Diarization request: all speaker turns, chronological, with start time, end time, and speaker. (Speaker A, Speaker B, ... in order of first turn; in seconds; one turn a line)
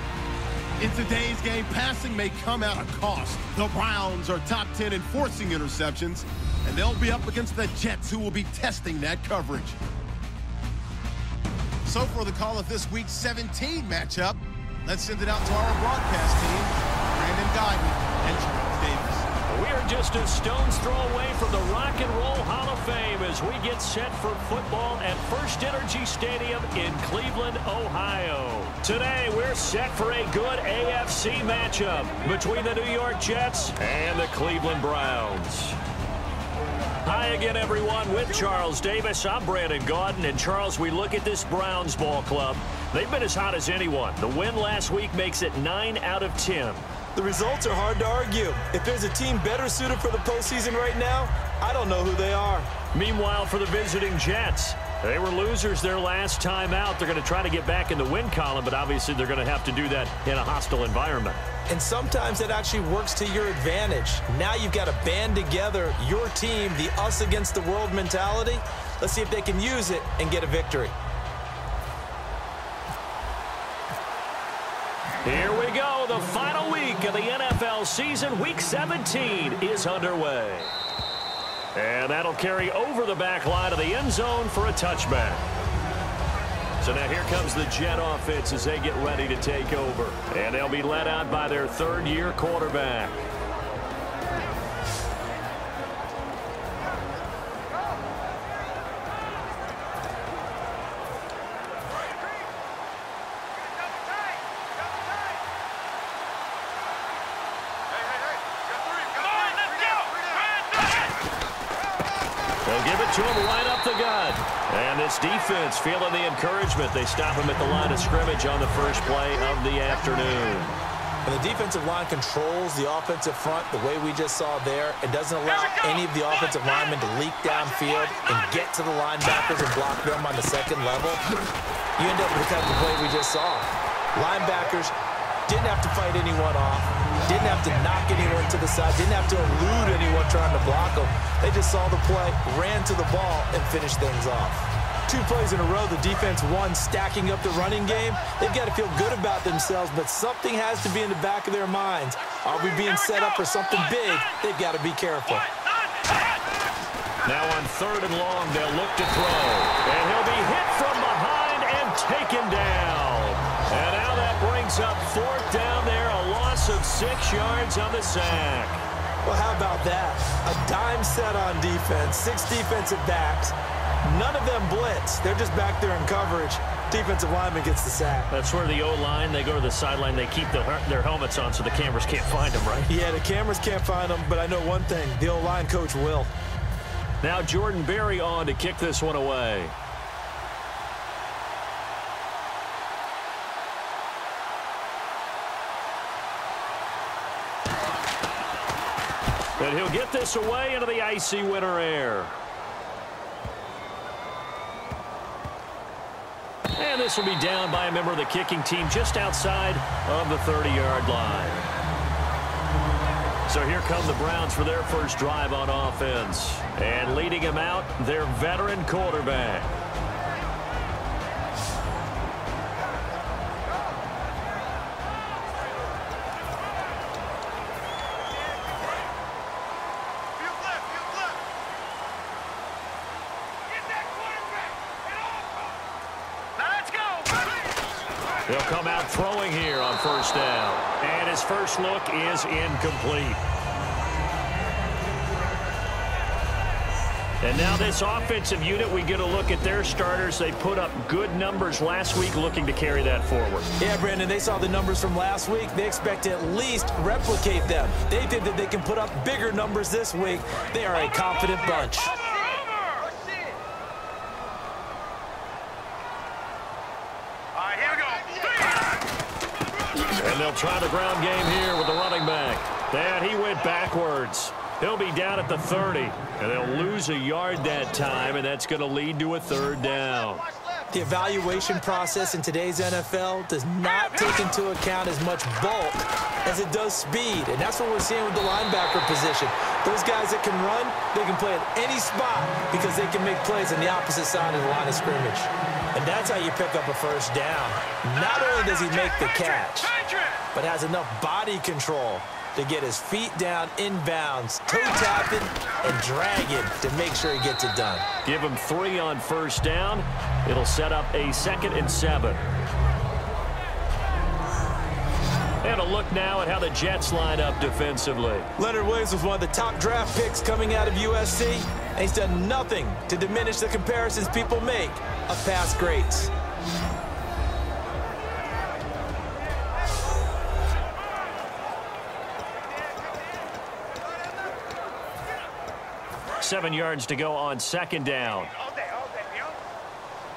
Speaker A: 0.8-9.8
Speaker A: 11.8-19.3
Speaker B: 19.5-35.8
Speaker B: 37.0-46.9
Speaker C: 47.1-52.7
Speaker B: 52.9-61.4
Speaker C: 61.7-71.0
Speaker B: 75.2-80.8
Speaker B: 81.8-85.5
Speaker B: 86.8-93.3
Speaker A: 109.0-110.4
Speaker B: 112.7-120.8
Speaker C: 121.2-131.2
Speaker C: 132.0-134.9
Speaker C: 135.5-155.5
Speaker B: 157.2-168.8
Speaker C: 169.2-178.3
Speaker B: 178.3-182.9
Speaker C: 182.9-186.3
Speaker B: 187.2-189.8
Speaker B: 199.6-202.4
Speaker B: 206.8-211.7
Speaker B: 213.5-219.8
Speaker B: 238.5-243.4
Speaker B: 247.4-253.7
Speaker C: 253.8-262.2
Speaker A: 267.6-268.5
Speaker B: 270.0-280.5
Speaker C: 280.9-299.9
Speaker C: 300.5-308.1
Speaker B: 308.2-312.4
Speaker B: 315.6-318.5
Speaker C: 318.6-326.3
Speaker B: 336.4-338.5